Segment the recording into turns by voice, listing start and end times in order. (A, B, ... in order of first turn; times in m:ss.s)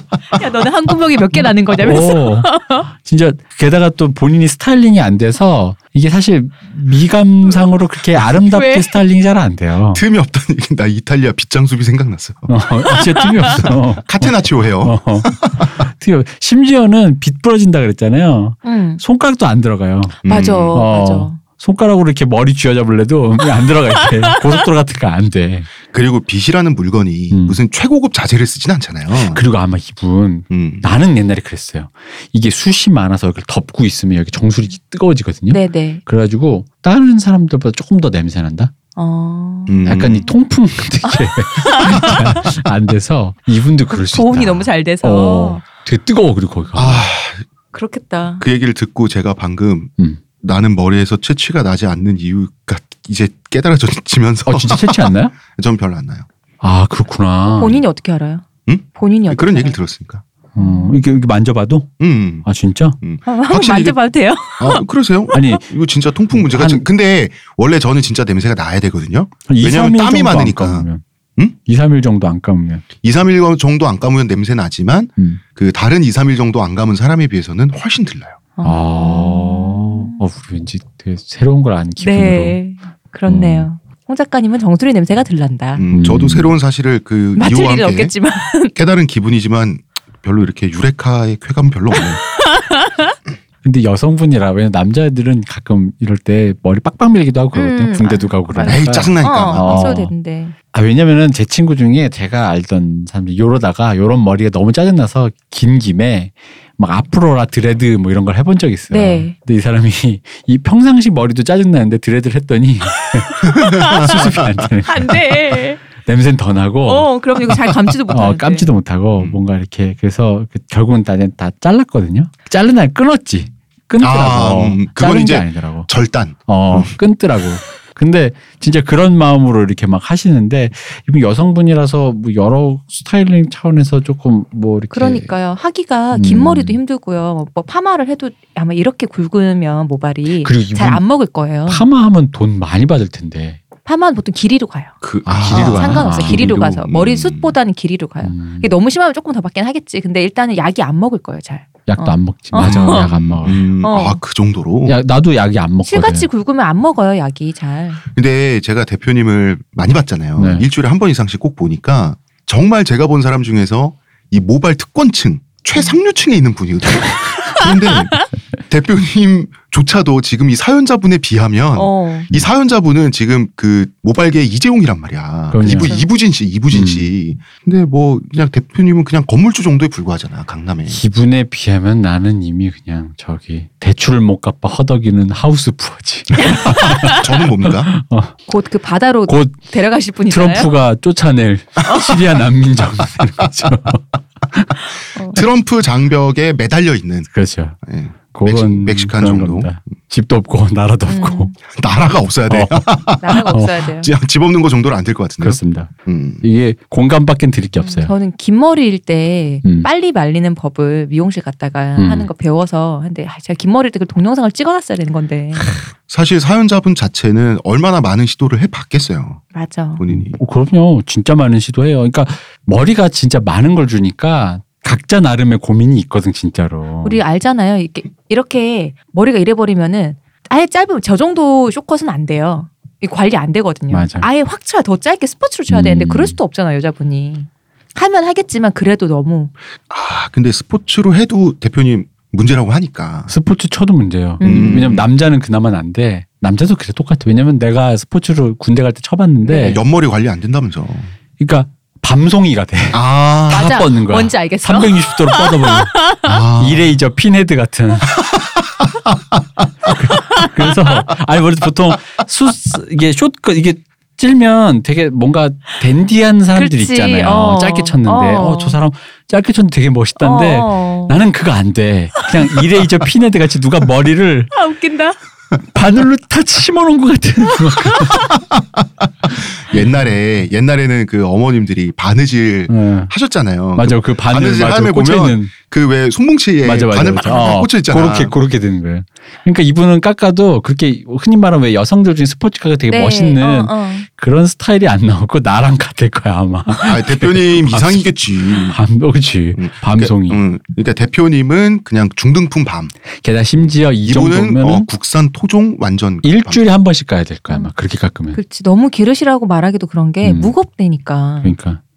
0:00.3-0:02.9 A
0:01.8-0:10.0 B
0:08.2-0:09.0 A
0:09.9-0:12.7 C
0:12.5-0:20.2 B
0:13.6-0:15.7 C
0:18.6-0:19.0 A
0:20.2-0:20.9 C
0:20.2-0:21.4 A
0:20.7-0:25.7 B
0:25.9-0:29.4 C
0:27.3-0:27.6 B
0:29.1-0:38.7 B
0:30.5-0:30.9 C
0:35.5-0:36.0 A
0:39.0-0:39.8 A
0:39.7-0:40.3 C
0:39.9-0:47.0 B
0:41.0-0:42.4 A
0:43.9-0:45.6 A
0:46.7-0:47.5 C
0:47.7-0:48.4 A
0:48.4-0:56.3 C
0:54.5-0:55.3 B
0:56.6-0:57.8 B
0:57.5-0:59.8 A
0:58.7-1:00.2 C
1:00.6-1:01.9 B
1:02.0-1:02.5 C
1:02.4-1:03.0 B
1:03.0-1:04.0 C
1:03.3-1:05.5 A
1:04.6-1:11.6 C
1:05.3-1:05.6 B
1:06.3-1:06.8 B
1:09.5-1:11.0 B
1:11.6-1:12.8 B
1:13.0-1:18.4 C
1:18.6-1:20.2 A
1:18.6-1:22.6 B
1:22.0-1:25.9 A
1:23.3-1:23.7 B
1:25.8-1:28.1 C
1:25.9-1:26.5 B
1:27.4-1:28.7 A
1:28.8-1:32.2 C
1:32.6-1:33.1 A
1:33.6-1:40.1 B
1:37.6-1:40.5 A
1:38.6-1:40.0 C
1:40.7-1:55.2 B
1:48.9-1:49.3 A
1:53.5-1:54.7 C
1:53.6-1:54.3 A
1:54.8-1:55.8 A
1:55.9-1:57.1 B
1:56.9-1:58.7 A
1:58.1-2:05.9 B
2:04.0-2:07.0 C
2:06.5-2:15.3 B
2:14.9-2:21.8 A
2:16.1-2:16.8 B
2:20.4-2:21.0 B
2:21.7-2:23.6 B
2:23.9-2:33.2 A
2:25.0-2:27.6 C
2:25.3-2:26.5 B
2:28.2-2:28.7 B
2:31.9-2:33.6 B
2:32.6-2:35.0 C
2:33.8-2:34.2 A
2:34.9-2:36.3 B
2:35.9-2:38.0 A
2:38.1-3:01.0 C
2:40.4-2:40.7 B
2:51.8-2:52.3 A
2:55.5-2:56.0 B
2:55.6-2:56.1 A
2:56.7-2:57.1 B
3:00.9-3:07.2 B
3:07.0-3:07.9 C
3:07.9-3:08.3 B
3:08.5-3:10.7 A
3:09.3-3:09.6 B
3:10.3-3:14.7 B
3:11.8-3:12.2 A
3:15.3-3:17.3 C
3:17.3-3:17.8 B
3:17.8-3:19.7 C
3:18.3-3:21.5 B
3:21.1-3:21.5 A
3:21.7-3:26.4 C
3:22.5-3:23.7 B
3:23.2-3:24.1 A
3:25.4-3:25.9 B
3:26.4-3:28.1 B
3:27.8-3:35.7 A
3:32.0-3:32.3 B
3:36.1-3:39.4 C
3:39.5-3:40.0 A
3:40.0-3:40.4 C
3:40.1-3:47.2 B
3:47.0-3:59.5 A
3:53.9-3:54.3 B
3:55.7-3:56.4 B
3:59.9-4:03.3 C
4:03.3-4:09.8 B
4:04.4-4:04.8 A
4:04.4-4:05.1 C
4:09.5-4:09.8 A
4:09.6-4:11.1 C
4:11.4-4:16.0 B
4:12.9-4:13.8 C
4:13.5-4:16.3 A
4:16.2-4:17.0 C
4:16.6-4:18.2 B
4:18.2-4:19.2 C
4:19.9-4:34.5 B
4:26.6-4:28.8 A
4:30.2-4:31.2 A
4:34.5-4:35.2 A
4:35.7-4:38.2 B
4:38.5-4:48.4 C
4:42.7-4:43.1 B
4:43.8-4:45.5 B
4:46.6-4:58.1 B
4:52.9-4:54.1 A
4:56.8-4:58.8 C
4:58.7-5:00.4 B
4:59.6-5:02.9 C
5:03.2-5:04.9 B
5:03.6-5:06.6 C
5:06.2-5:08.4 B
5:08.3-5:11.5 A
5:10.2-5:10.5 B
5:11.4-5:11.8 B